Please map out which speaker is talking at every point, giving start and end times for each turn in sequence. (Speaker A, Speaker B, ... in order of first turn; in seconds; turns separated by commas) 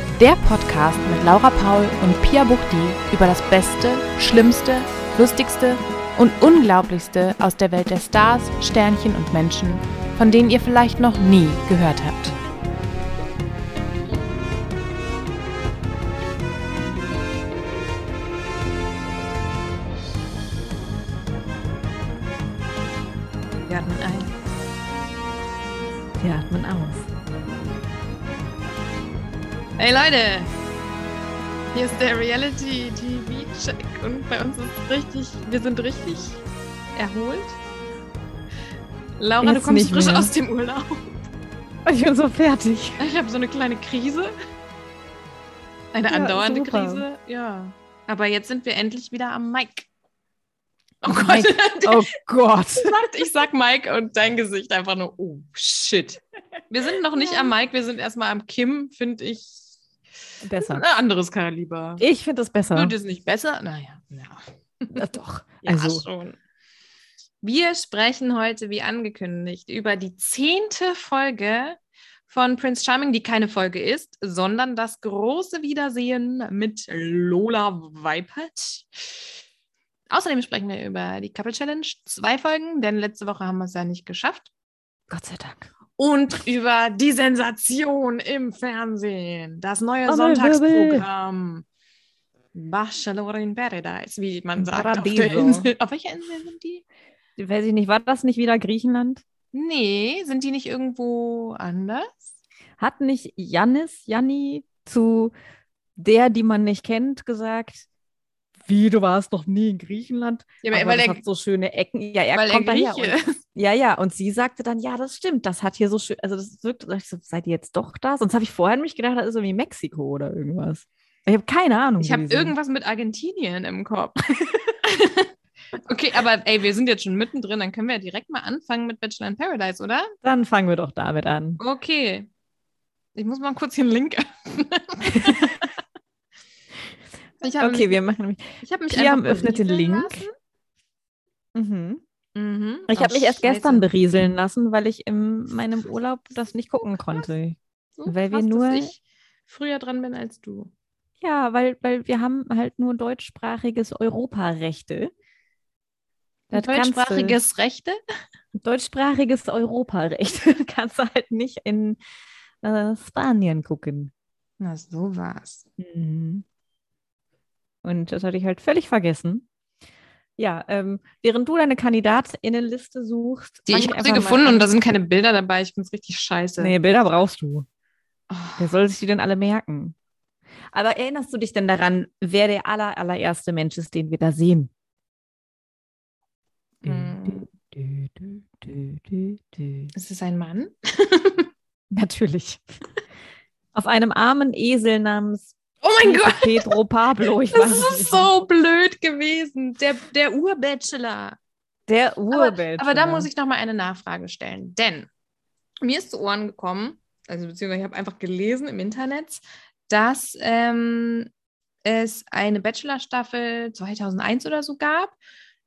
Speaker A: 0.2-12.4, Speaker B: 23.7-24.3, Speaker C: 26.2-27.1, Speaker B: 29.8-30.5, Speaker B: 31.7-36.4, Speaker B: 37.0-37.6, Speaker B: 39.2-41.0, Speaker C: 39.4-40.3, Speaker C: 41.9-43.0, Speaker B: 43.0-44.3, Speaker B: 45.9-49.9, Speaker C: 46.1-47.0, Speaker B: 51.0-52.0, Speaker C: 51.1-53.0, Speaker B: 52.8-59.6, Speaker C: 57.2-57.5, Speaker C: 60.4-60.9, Speaker B: 60.6-62.0, Speaker C: 62.0-63.0, Speaker B: 62.7-65.0, Speaker C: 64.9-66.0, Speaker B: 65.6-66.4, Speaker B: 67.4-79.2, Speaker B: 80.1-84.5, Speaker C: 85.1-85.7, Speaker B: 86.0-91.7, Speaker C: 90.1-91.1, Speaker B: 92.5-96.8, Speaker C: 94.6-95.7, Speaker C: 97.4-99.2, Speaker B: 99.5-102.2, Speaker C: 102.8-105.3, Speaker C: 106.0-107.9, Speaker C: 108.7-122.5, Speaker B: 110.6-111.2, Speaker B: 112.3-113.2, Speaker B: 122.0-124.2, Speaker B: 124.8-125.3, Speaker B: 125.8-130.1, Speaker C: 130.2-131.6, Speaker B: 131.6-132.3, Speaker B: 133.2-135.6, Speaker C: 135.1-135.6, Speaker B: 137.4-138.0, Speaker C: 137.6-140.2, Speaker B: 138.6-140.3, Speaker C: 141.6-142.0, Speaker B: 142.3-143.9, Speaker C: 142.9-148.9, Speaker B: 148.0-150.7, Speaker C: 151.2-155.1, Speaker C: 156.5-157.4, Speaker B: 156.5-158.0, Speaker C: 158.6-162.0, Speaker C: 162.6-164.1, Speaker B: 164.6-165.7, Speaker C: 165.8-166.4, Speaker C: 167.8-169.5, Speaker C: 170.4-174.7, Speaker B: 173.7-176.7, Speaker C: 176.6-177.7, Speaker B: 178.3-178.7, Speaker C: 178.6-180.0, Speaker C: 180.7-184.7, Speaker B: 186.8-187.4, Speaker C: 186.8-189.9, Speaker B: 189.9-191.5, Speaker C: 191.9-192.6, Speaker C: 193.8-198.3, Speaker B: 195.8-201.4, Speaker C: 201.9-203.3, Speaker B: 202.3-205.1, Speaker B: 205.8-211.3, Speaker B: 211.8-215.2